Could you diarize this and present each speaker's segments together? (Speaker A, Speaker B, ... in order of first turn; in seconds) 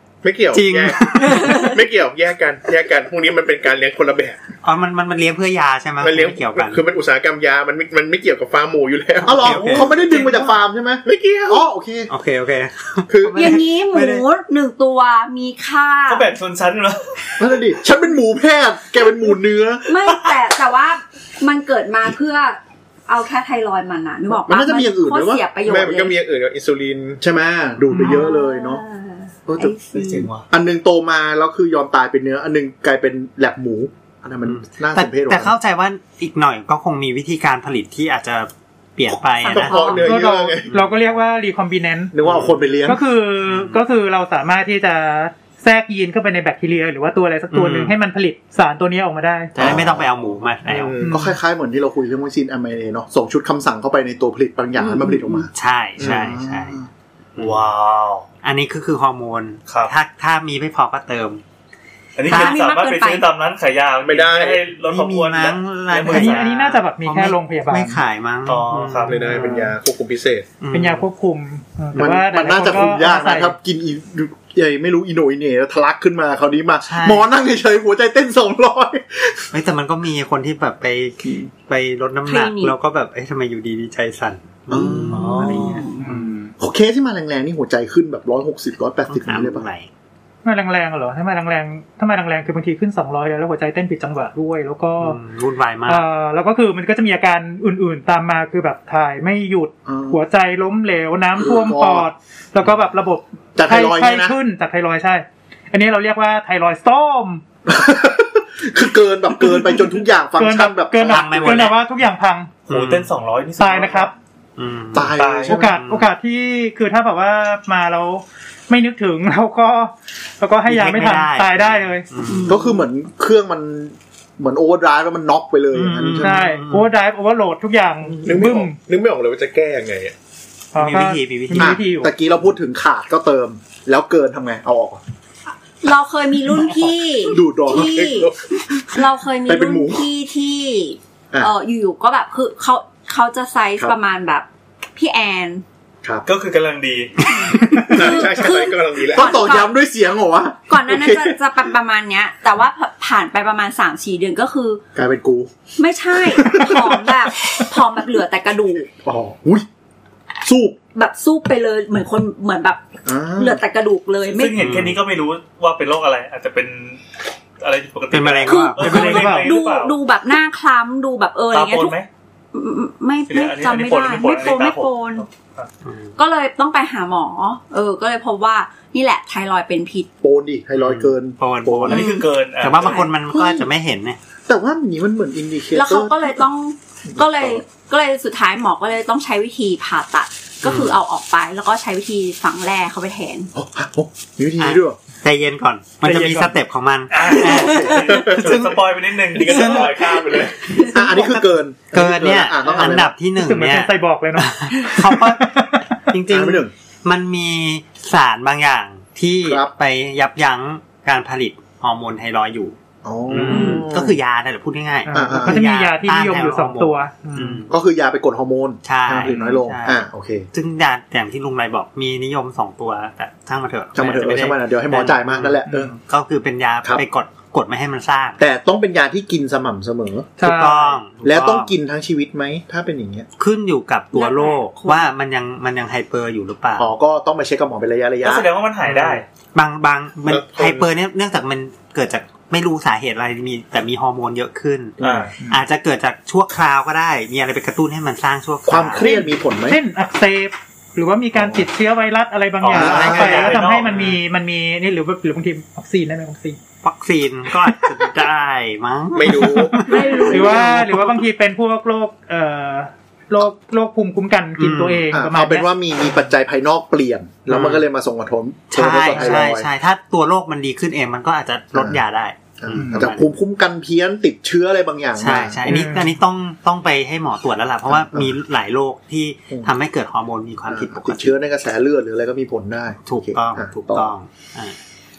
Speaker A: 0.2-4.4, 6.0-10.1, 11.0-11.6, 25.6-27.2, 39.5-40.7, 49.6-49.9, 50.6-51.1, 56.0-56.3, 64.0-64.7, 69.0-70.5, 128.2-130.1, 137.8-138.3, 147.8-149.4, 199.3-200.7, 240.3-240.9, 259.1-259.9
Speaker B: 0.5-1.6, 4.6-6.8, 9.2-10.5, 12.1-14.2, 34.4-40.0, 42.2-42.8, 43.4-43.8, 47.5-47.9, 49.5-51.0, 55.5-56.8, 57.4-57.7, 58.4-61.4, 62.2-62.6, 64.8-69.7, 70.6-71.0, 76.8-77.3, 79.5-86.2, 89.1-89.9, 95.0-96.0, 111.0-111.8, 112.7-113.1, 114.6-116.1, 120.7-122.6, 125.7-126.9, 130.8-131.8, 164.6-165.0, 168.1-169.3, 175.8-176.1, 180.8-184.2, 190.6-190.9, 194.6-198.8, 199.3-212.8, 213.3-217.7, 218.8-228.4, 230.4-231.7, 233.4-236.9, 238.9-249.1, 252.7-254.2, 256.8-261.1, 264.6-265.1, 267.5-267.9, 268.7-273.3, 275.2-281.3, 283.1-284.8
Speaker C: 1.3-1.8, 13.3-16.3, 19.8-26.2, 27.9-30.3, 39.4-40.1, 54.8-55.5, 62.2-63.3, 82.2-82.7, 85.3-86.0, 122.3-122.8, 135.8-138.3, 138.9-145.6, 147.4-149.8, 150.7-154.8, 155.8-158.9, 160.9-164.6, 168.4-172.0, 172.5-175.2, 176.2-180.1, 181.9-183.1, 185.7-193.5, 197.6-198.0, 213.5-213.9, 234.1-235.1, 259.8-260.8
Speaker D: 9.2-12.1, 17.4-19.8, 24.4-25.4, 27.2-28.8, 29.5-29.8, 30.4-35.5, 42.1-43.0, 49.6-50.0, 51.0-56.9, 69.3-69.7, 72.0-79.5, 84.7-85.8, 86.6-89.7, 99.8-100.2, 101.4-102.1, 103.5-104.3, 107.7-111.7, 114.9-115.8, 122.5-126.4, 128.1-128.3, 131.6-135.0, 137.2-138.3, 139.4-140.1, 149.1-151.3, 154.9-155.5, 156.3-157.0, 159.0-159.7, 160.4-160.8, 163.1-163.6, 180.2-182.1, 183.3-183.6, 184.5-186.4, 187.1-187.6, 193.5-195.0, 197.6-197.9, 200.9-203.1, 206.3-206.7, 209.4-209.7, 213.0-214.2, 215.1-215.6, 217.7-220.5, 223.9-226.0, 228.4-230.3, 231.2-233.3, 236.8-238.5, 245.0-245.3, 248.7-249.8, 251.3-251.6, 252.7-253.6, 260.3-260.8, 265.1-269.7, 271.7-272.0, 272.6-275.8, 277.9-278.3, 280.7-284.1
Speaker E: 16.1-17.4, 57.4-58.2, 59.7-59.9, 62.1-66.5, 68.5-69.2, 85.1-85.8, 112.7-114.1, 115.2-115.5, 146.2-147.5, 164.3-167.0, 167.6-169.9, 171.5-172.1, 173.3-175.7, 181.9-183.1, 197.1-200.5, 238.2-239.2, 245.0-245.3, 252.6-254.0
Speaker F: 40.0-42.1, 42.8-49.5, 51.0-51.4, 66.1-68.0, 70.7-73.6, 86.0-86.5, 90.4-95.2, 95.8-107.4, 110.4-112.5, 113.6-114.1, 115.5-122.1, 126.2-128.8, 130.7-132.1, 168.8-169.5, 196.0-196.6, 203.3-205.8, 215.1-217.6, 225.7-225.9, 230.4-231.0, 249.0-256.6, 260.2-265.7, 269.1-269.4, 272.7-273.0, 275.6-276.1